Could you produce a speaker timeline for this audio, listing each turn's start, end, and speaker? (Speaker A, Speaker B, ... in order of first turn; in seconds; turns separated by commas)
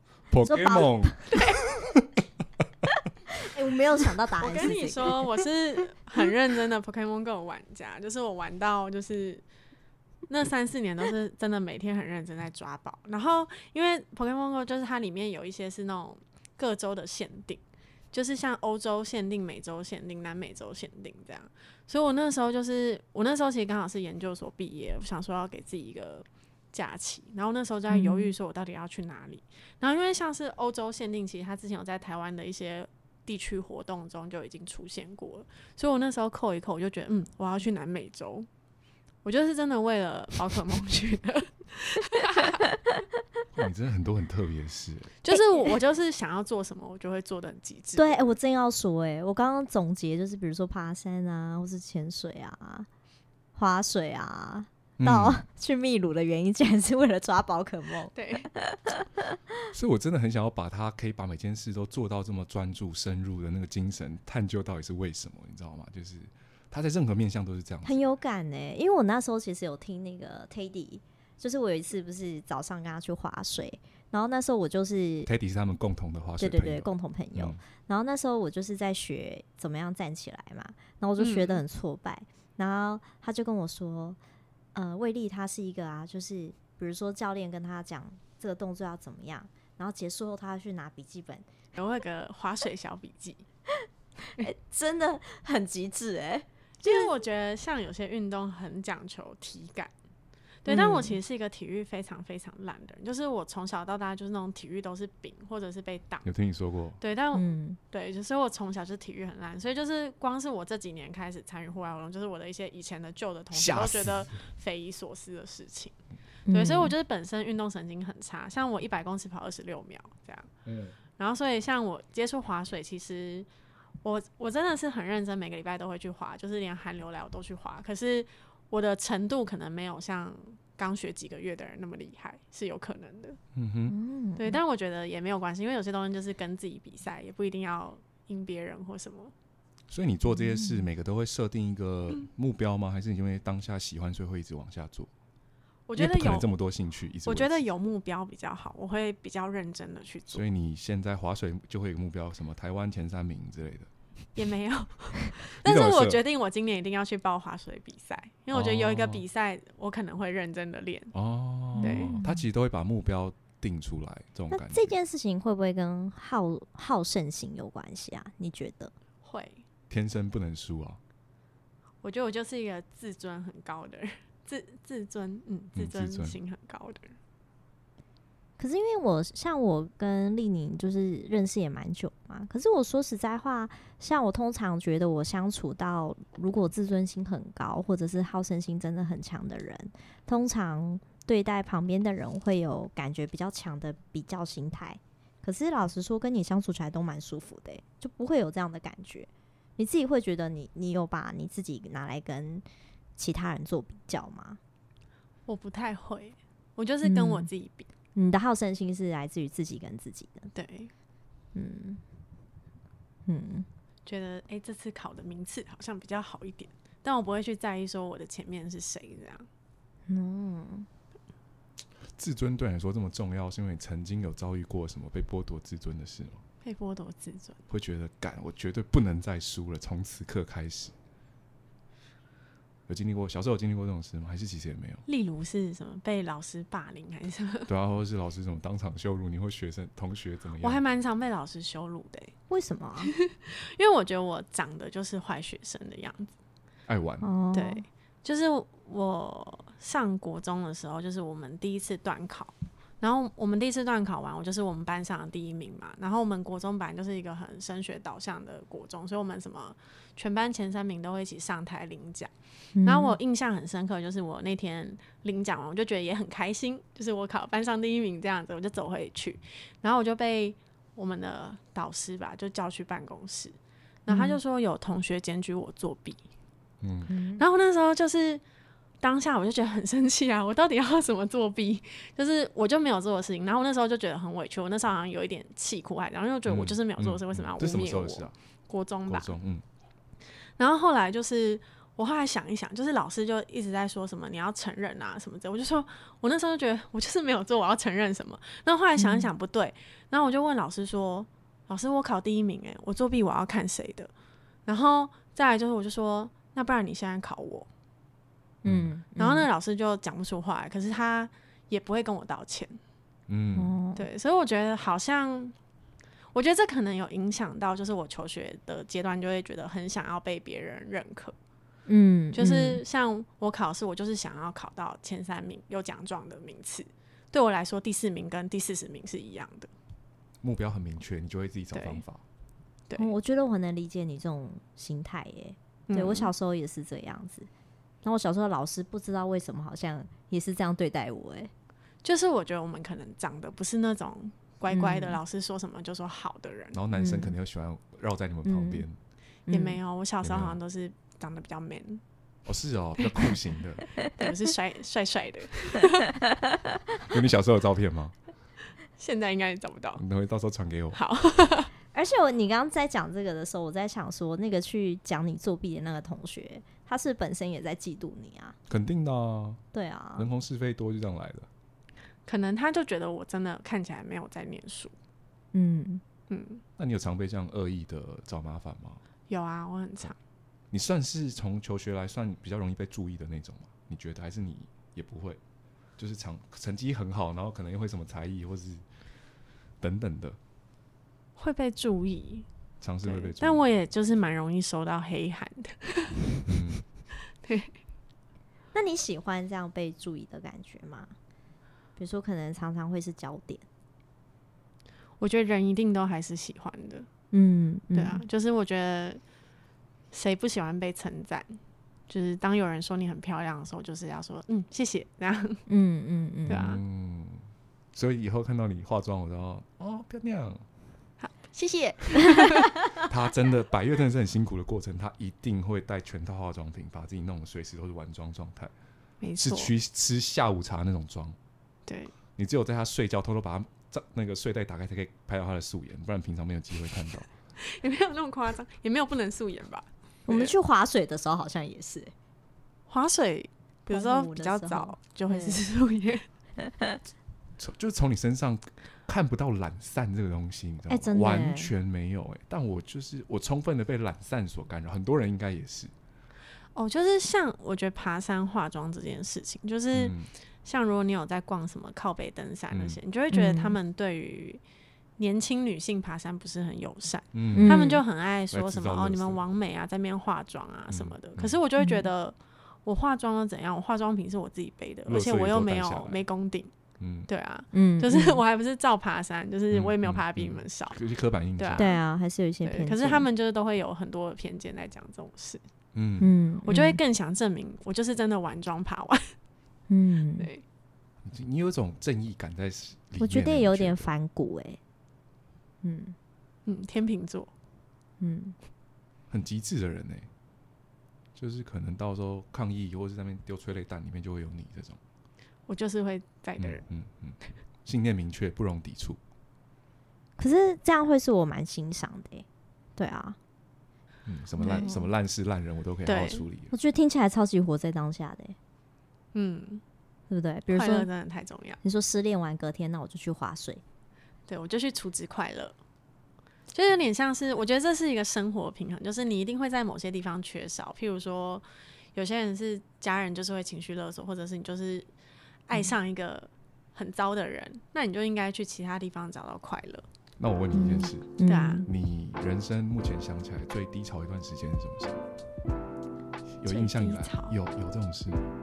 Speaker A: 0.3-1.4, Speaker B: 0.4-1.2, Speaker B: 3.3-5.2, Speaker C: 4.4-9.4, Speaker C: 10.3-38.5, Speaker B: 27.9-28.3, Speaker C: 39.2-42.7, Speaker A: 43.5-45.2, Speaker C: 45.2-48.3, Speaker B: 45.3-45.8, Speaker B: 48.0-52.9, Speaker B: 53.5-59.5, Speaker A: 55.0-55.4, Speaker C: 58.1-58.5, Speaker A: 59.7-68.0, Speaker B: 67.8-75.3, Speaker A: 75.2-77.6, Speaker B: 76.4-84.2, Speaker C: 81.2-81.6, Speaker B: 84.7-91.5, Speaker C: 91.7-93.4, Speaker B: 93.8-97.1, Speaker C: 96.8-99.9, Speaker C: 100.6-106.3, Speaker B: 100.7-101.2, Speaker A: 106.2-107.0, Speaker C: 107.0-115.9, Speaker B: 107.3-107.8, Speaker A: 113.5-114.3, Speaker B: 116.5-116.9, Speaker C: 116.5-120.5, Speaker A: 120.7-120.9, Speaker C: 121.2-123.5, Speaker C: 124.0-133.4, Speaker A: 133.5-133.9, Speaker B: 133.9-134.6, Speaker C: 134.4-139.3, Speaker A: 139.9-145.1, Speaker B: 140.3-140.8, Speaker C: 145.9-146.5, Speaker A: 146.0-147.6, Speaker C: 147.2-150.4, Speaker A: 150.3-153.9, Speaker C: 154.3-161.1, Speaker A: 155.6-156.2, Speaker A: 158.5-159.2, Speaker A: 161.1-164.9, Speaker B: 161.7-162.4, Speaker C: 161.8-162.2, Speaker B: 164.5-168.9, Speaker C: 169.2-169.6, Speaker A: 169.9-171.0, Speaker C: 172.0-177.2, Speaker A: 175.8-176.4, Speaker B: 178.6-202.6, Speaker B: 203.2-204.6, Speaker C: 205.5-207.9, Speaker B: 207.0-207.5, Speaker B: 208.1-210.5, Speaker C: 210.5-210.9, Speaker B: 211.5-212.0, Speaker B: 213.2-213.7, Speaker C: 214.1-219.5, Speaker B: 220.1-220.9, Speaker A: 222.2-226.4, Speaker C: 226.6-227.6, Speaker A: 227.7-230.9, Speaker A: 232.9-235.0, Speaker C: 235.1-237.7, Speaker A: 237.7-240.8, Speaker C: 240.6-242.3, Speaker B: 242.5-243.1, Speaker C: 243.0-246.3, Speaker A: 246.9-247.3, Speaker B: 247.2-247.8, Speaker C: 247.5-276.2, Speaker B: 262.7-263.1, Speaker B: 274.1-274.4, Speaker A: 276.8-277.1, Speaker B: 277.1-277.4, Speaker C: 277.4-278.4, Speaker C: 279.0-289.3, Speaker A: 286.5-288.3, Speaker A: 289.1-289.6, Speaker C: 290.6-304.1, Speaker B: 299.0-299.3, Speaker C: 304.7-307.7, Speaker A: 308.6-308.9, Speaker B: 308.6-309.5, Speaker C: 309.2-312.8, Speaker A: 313.3-313.7, Speaker B: 313.5-314.0, Speaker C: 313.9-315.5, Speaker C: 316.3-321.4, Speaker B: 321.9-322.8, Speaker C: 322.3-329.7, Speaker A: 330.4-332.2, Speaker C: 331.7-332.0, Speaker B: 333.0-337.5, Speaker C: 335.9-336.3, Speaker B: 338.0-341.5, Speaker C: 342.0-346.8, Speaker B: 344.7-345.2, Speaker A: 346.7-348.9, Speaker B: 346.9-347.3, Speaker B: 348.4-348.8, Speaker B: 349.5-349.8, Speaker C: 349.5-352.0, Speaker A: 350.2-350.6, Speaker A: 352.4-353.8, Speaker C: 354.1-356.1, Speaker A: 357.0-358.1, Speaker C: 359.0-360.0, Speaker A: 360.0-361.0, Speaker C: 360.9-361.7, Speaker B: 361.9-368.6, Speaker A: 368.7-369.6, Speaker B: 369.7-370.3, Speaker A: 370.1-371.5, Speaker C: 372.3-374.9, Speaker B: 375.5-376.0, Speaker C: 376.3-376.6, Speaker A: 376.8-379.0, Speaker C: 379.3-380.2, Speaker A: 380.7-385.4, Speaker A: 386.0-388.8, Speaker A: 389.8-390.4, Speaker C: 391.4-392.5, Speaker A: 392.8-393.6, Speaker C: 393.0-396.2, Speaker A: 396.5-396.8, Speaker C: 397.4-397.8, Speaker B: 398.7-401.1, Speaker B: 401.9-403.6, Speaker C: 405.2-407.1, Speaker B: 407.3-408.2, Speaker C: 407.9-409.2, Speaker C: 410.1-415.6, Speaker B: 415.7-416.8, Speaker A: 416.5-420.6, Speaker C: 416.5-416.8, Speaker C: 421.2-422.8, Speaker B: 422.4-422.6, Speaker A: 422.9-428.7, Speaker C: 429.2-429.7, Speaker A: 429.4-431.4, Speaker C: 431.9-432.1, Speaker A: 432.4-437.3, Speaker C: 437.6-440.5, Speaker B: 440.3-442.1, Speaker C: 442.9-446.3, Speaker B: 443.9-445.6, Speaker B: 446.6-447.0, Speaker A: 447.6-455.9, Speaker B: 450.9-451.7, Speaker C: 456.7-464.6, Speaker A: 459.9-460.3, Speaker A: 462.7-463.0, Speaker B: 463.3-463.8, Speaker C: 465.2-476.7, Speaker A: 467.3-467.9, Speaker B: 467.5-468.0, Speaker A: 468.5-469.4, Speaker A: 470.9-471.6, Speaker B: 471.8-472.1, Speaker A: 475.1-476.2, Speaker A: 477.0-477.3, Speaker C: 477.3-481.0, Speaker B: 477.7-478.4, Speaker A: 479.7-481.9, Speaker C: 481.6-482.0, Speaker B: 481.8-483.3, Speaker C: 482.6-485.6, Speaker A: 485.9-486.3, Speaker B: 486.2-487.0, Speaker C: 486.7-489.4, Speaker B: 489.9-490.5, Speaker C: 490.4-490.6, Speaker A: 491.2-494.1, Speaker B: 493.2-494.8, Speaker B: 495.8-496.1, Speaker C: 496.6-497.5, Speaker B: 498.2-498.5, Speaker A: 499.3-500.3, Speaker A: 501.3-505.0, Speaker C: 505.7-506.8, Speaker A: 506.6-509.2, Speaker B: 510.4-512.5, Speaker B: 513.0-513.4, Speaker A: 514.2-516.7, Speaker C: 514.6-514.9, Speaker B: 514.7-515.1, Speaker C: 516.0-516.4, Speaker B: 516.7-518.6, Speaker C: 519.3-519.8, Speaker B: 520.3-521.1, Speaker C: 520.7-521.8, Speaker B: 521.8-523.8, Speaker C: 524.5-525.8, Speaker C: 526.7-535.1, Speaker C: 535.7-540.0, Speaker A: 540.4-545.2, Speaker B: 540.7-541.9, Speaker C: 541.4-541.9, Speaker A: 546.6-548.4, Speaker C: 546.6-547.5